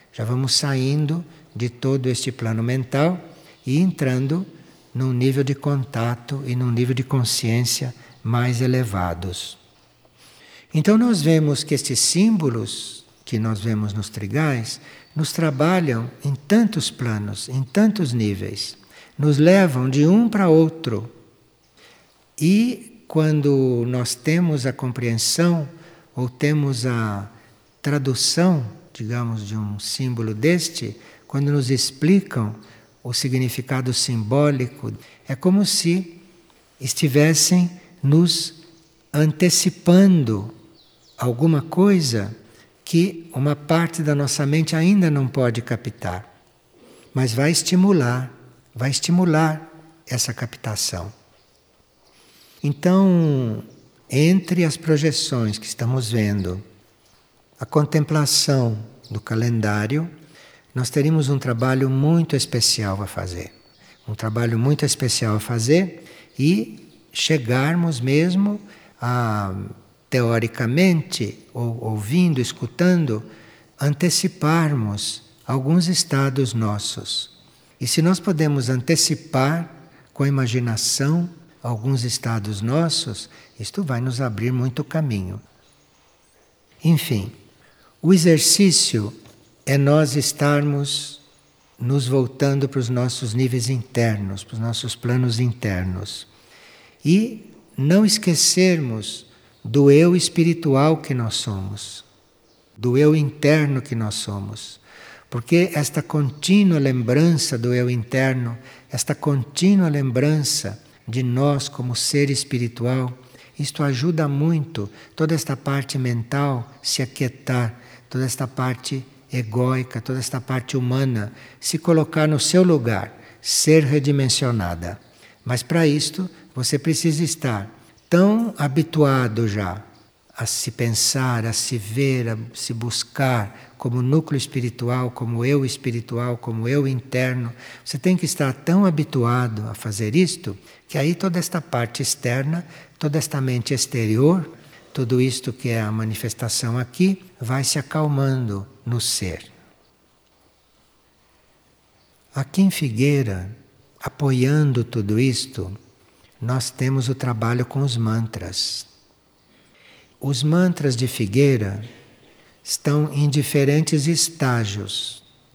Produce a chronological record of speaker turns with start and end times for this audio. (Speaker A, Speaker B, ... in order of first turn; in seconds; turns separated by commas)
Speaker A: 0.1-9.6, Speaker A: 10.7-21.1, Speaker A: 22.4-36.2, Speaker A: 36.8-38.6, Speaker A: 39.1-40.5, Speaker A: 41.2-42.3, Speaker A: 42.9-46.3, Speaker A: 47.1-51.1, Speaker A: 52.6-56.6, Speaker A: 57.6-60.1, Speaker A: 60.7-63.5, Speaker A: 64.1-73.3, Speaker A: 73.8-85.4, Speaker A: 86.8-87.3, Speaker A: 88.0-91.2, Speaker A: 91.8-96.3, Speaker A: 97.0-102.0, Speaker A: 102.8-149.5, Speaker A: 152.3-155.8, Speaker A: 156.4-158.9, Speaker A: 160.2-161.8, Speaker A: 162.6-165.2